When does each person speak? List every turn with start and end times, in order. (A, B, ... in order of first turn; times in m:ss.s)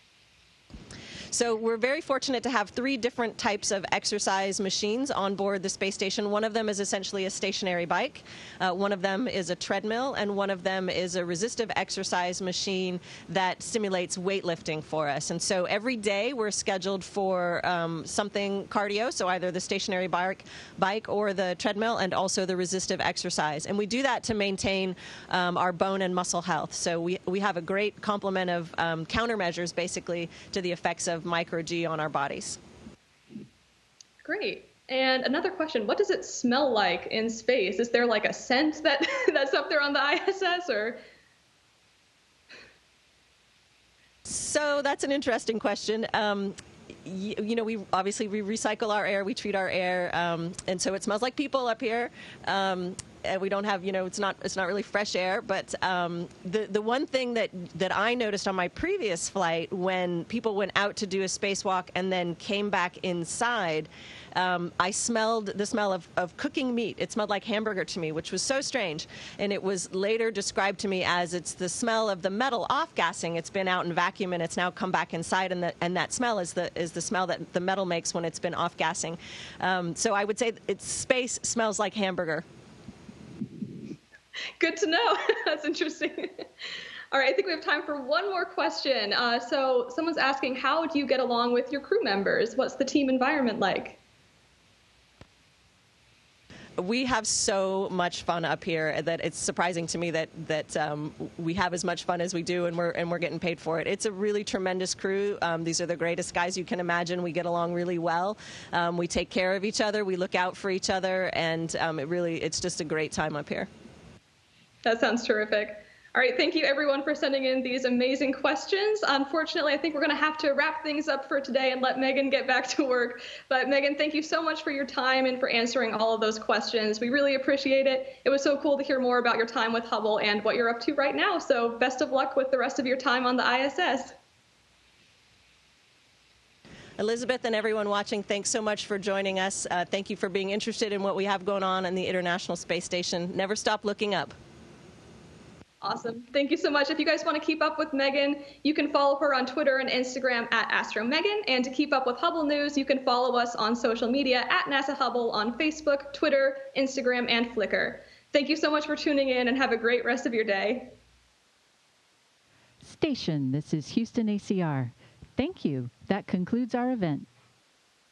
0:01.3-0:32.6 A
0:34.2-0:41.0 B
0:44.2-1:22.4 A
1:24.6-1:26.4 B
1:27.1-1:34.0 B
1:36.8-1:53.7 A
1:54.8-2:14.1 B
2:17.0-2:24.3 A
2:25.8-2:40.9 B
2:42.8-2:47.3 C